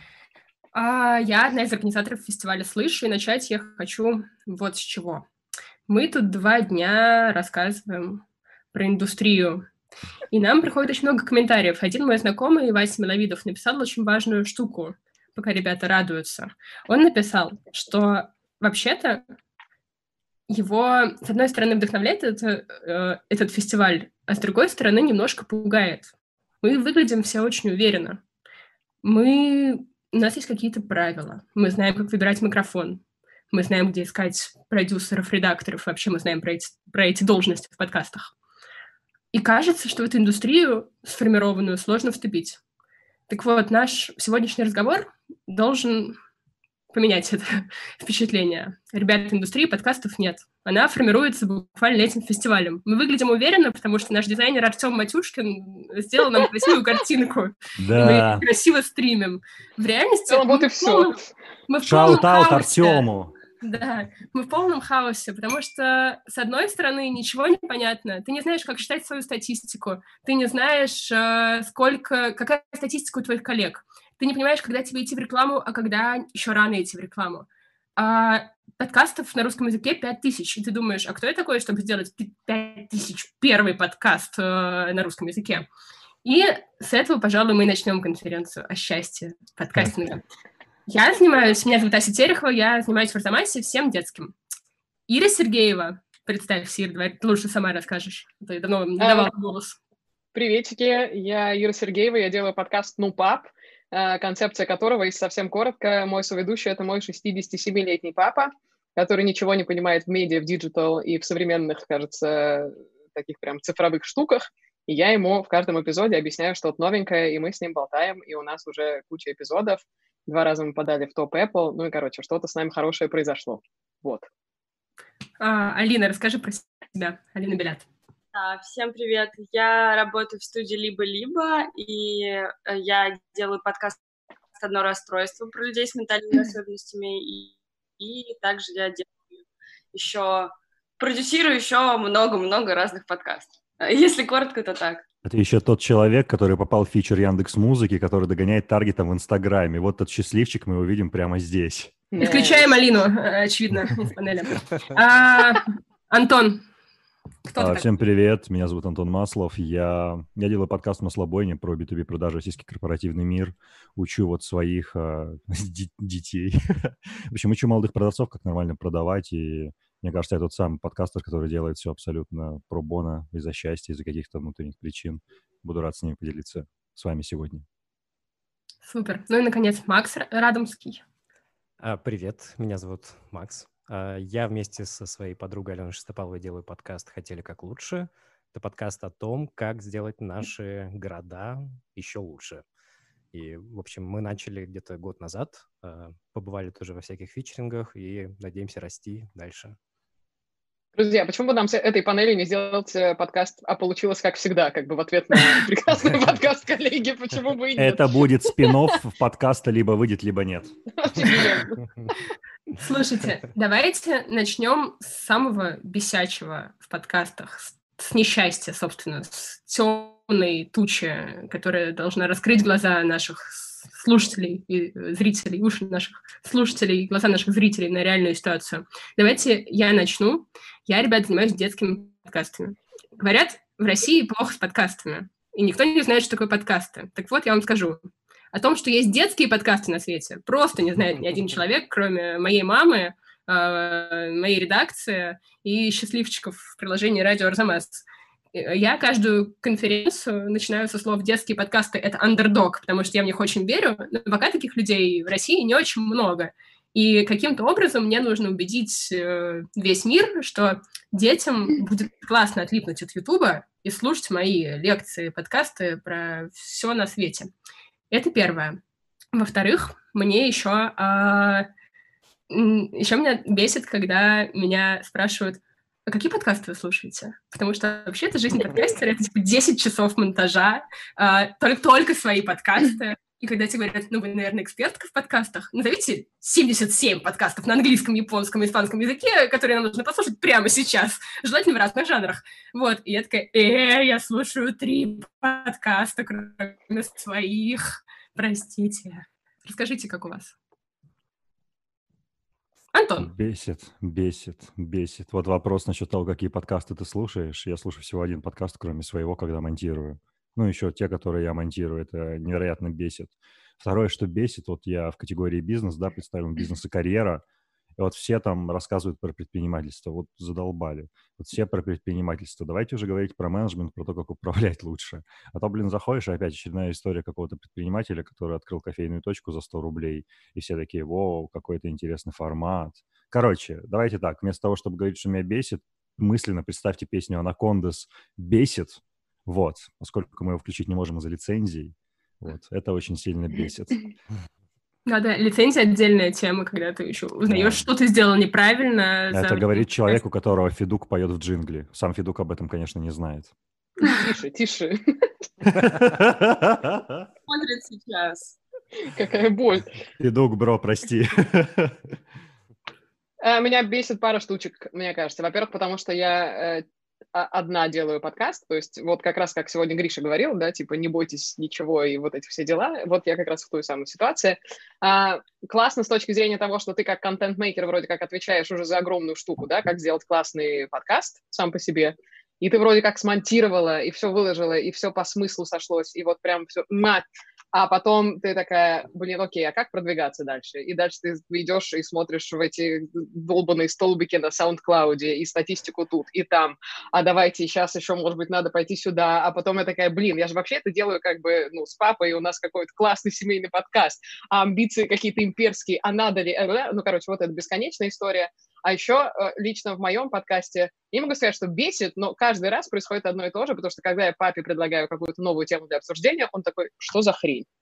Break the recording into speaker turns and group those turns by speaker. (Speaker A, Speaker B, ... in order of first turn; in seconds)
Speaker A: 0.7-5.3, 5.9-9.6, 10.3-19.2, 20.5-28.2, 29.0-38.3, 39.3-42.6, 43.3-46.2, 46.9-63.1, 63.6-85.7, 86.2-90.2, 90.9-94.3, 95.1-99.8, 125.4-127.9, 152.2-156.6, 157.4-157.9, 178.8-181.0, 212.7-238.0, 238.5-267.5, 268.1-268.8, 269.3-271.7, 272.5-300.5, 302.9-303.3, 345.1-350.2
Speaker B: 57.8-58.4, 61.8-63.3, 145.2-152.0, 157.6-177.6, 207.8-211.4, 303.2-317.4, 318.0-344.1, 347.5-347.9, 349.3-353.5, 355.6-357.3, 360.2-362.0
Speaker C: 60.3-61.2, 99.0-99.3, 100.3-124.3, 152.1-152.7, 200.9-208.1, 211.0-211.8, 354.0-355.0, 359.1-359.9, 363.4-417.7
Speaker D: 128.3-134.0, 134.6-139.2, 139.9-145.0, 357.5-358.6
Speaker E: 181.8-192.6, 193.3-199.8